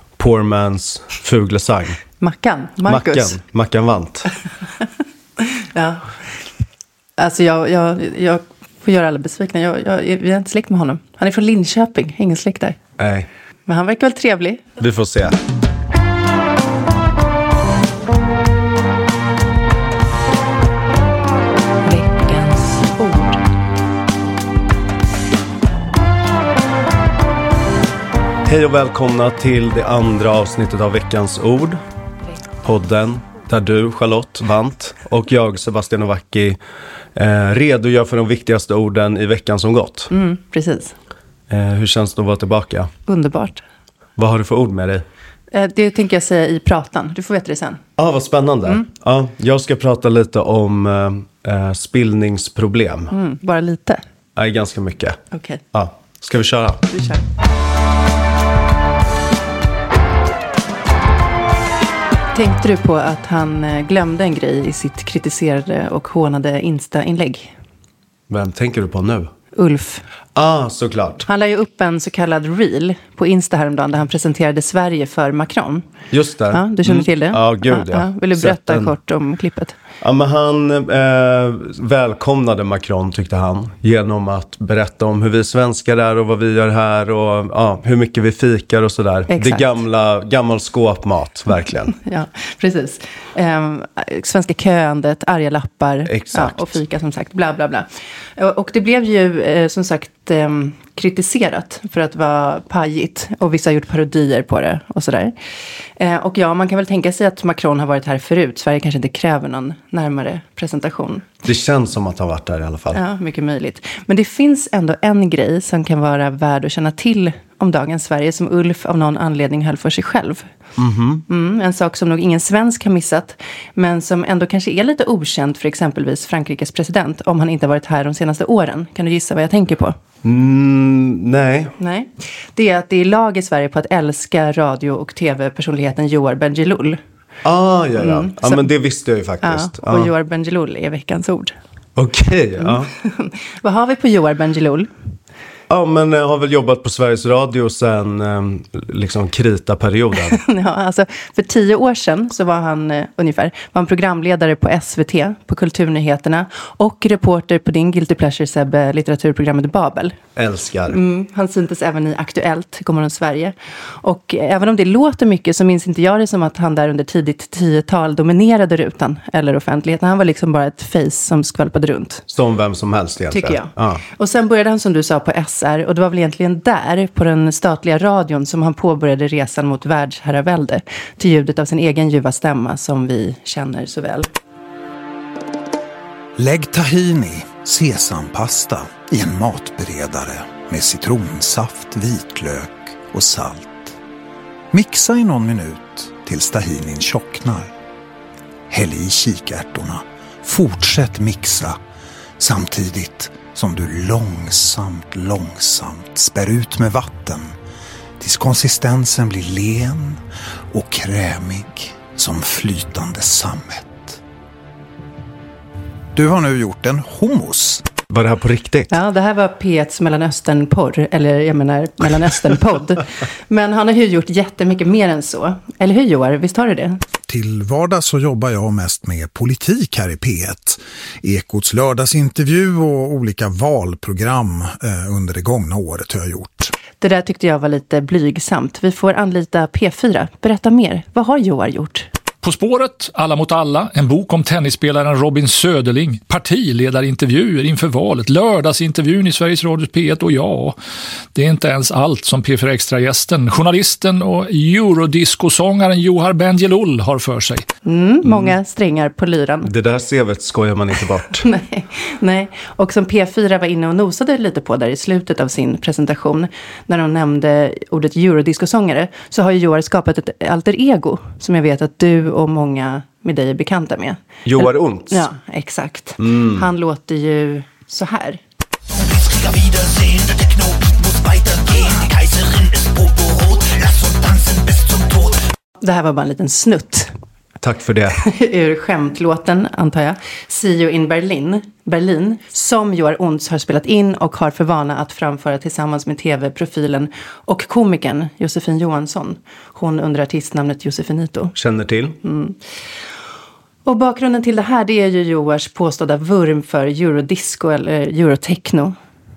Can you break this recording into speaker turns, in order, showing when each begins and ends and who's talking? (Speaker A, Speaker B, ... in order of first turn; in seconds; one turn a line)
Speaker A: 0.2-2.0
Speaker B: 2.2-3.4
Speaker A: 2.9-4.3
Speaker B: 5.4-6.0
Speaker B: 7.2-12.8
Speaker A: 13.0-13.3
Speaker B: 13.7-14.7
Speaker A: 14.8-15.4
Speaker B: 21.8-23.4
Speaker A: 28.5-31.8
Speaker A: 32.6-36.6
Speaker A: 37.2-40.1
Speaker B: 40.1-41.0
Speaker A: 41.5-42.9
Speaker B: 43.1-43.6
Speaker A: 44.2-45.0
Speaker B: 45.5-47.8
Speaker A: 48.0-53.1
Speaker B: 53.1-54.0
Speaker A: 54.4-55.2
Speaker B: 55.3-55.6
Speaker A: 55.7-56.8
Speaker B: 56.9-57.2
Speaker B: 62.4-67.5
Speaker A: 68.3-69.3
Speaker B: 69.5-70.0
Speaker A: 70.3-71.3
Speaker B: 71.3-75.9
Speaker A: 76.1-78.9
Speaker B: 76.5-79.8
Speaker A: 80.0-92.0
Speaker B: 89.3-89.7
Speaker B: 91.9-105.3
Speaker A: 96.1-96.8
Speaker B: 106.0-111.3
Speaker A: 111.5-113.0
Speaker B: 112.9-120.5
Speaker A: 120.8-121.2
Speaker B: 121.3-130.0
Speaker A: 130.2-131.7
Speaker B: 131.8-137.0
Speaker A: 137.4-140.1
Speaker B: 138.0-138.7
Speaker B: 139.4-141.6
Speaker A: 142.0-142.9
Speaker B: 142.6-144.9
Speaker A: 145.7-150.4
Speaker B: 150.3-160.2
Speaker A: 160.4-161.0
Speaker B: 160.9-172.2
Speaker A: 172.3-174.0
Speaker B: 173.3-184.3
Speaker C: 186.4-194.0
Speaker C: 194.7-197.7
Speaker C: 198.7-201.8
Speaker C: 202.4-207.6
Speaker C: 208.2-214.2
Speaker C: 216.1-217.8
Speaker A: 218.1-218.9
Speaker B: 218.9-227.0
Speaker C: 227.3-236.7
Speaker B: 237.0-242.1
Speaker D: 242.4-250.8
Speaker D: 251.3-257.7
Speaker B: 257.9-259.7
Speaker A: 258.2-258.5
Speaker A: 259.6-261.4
Speaker B: 261.4-278.4
Speaker A: 274.5-275.2
Speaker A: 276.2-276.7
Speaker E: 278.9-285.4
Speaker B: 285.8-287.1
Speaker A: 287.6-288.2
Speaker B: 288.2-301.6
Speaker A: 301.6-302.2
Speaker B: 302.2-302.6
Speaker B: 303.9-308.9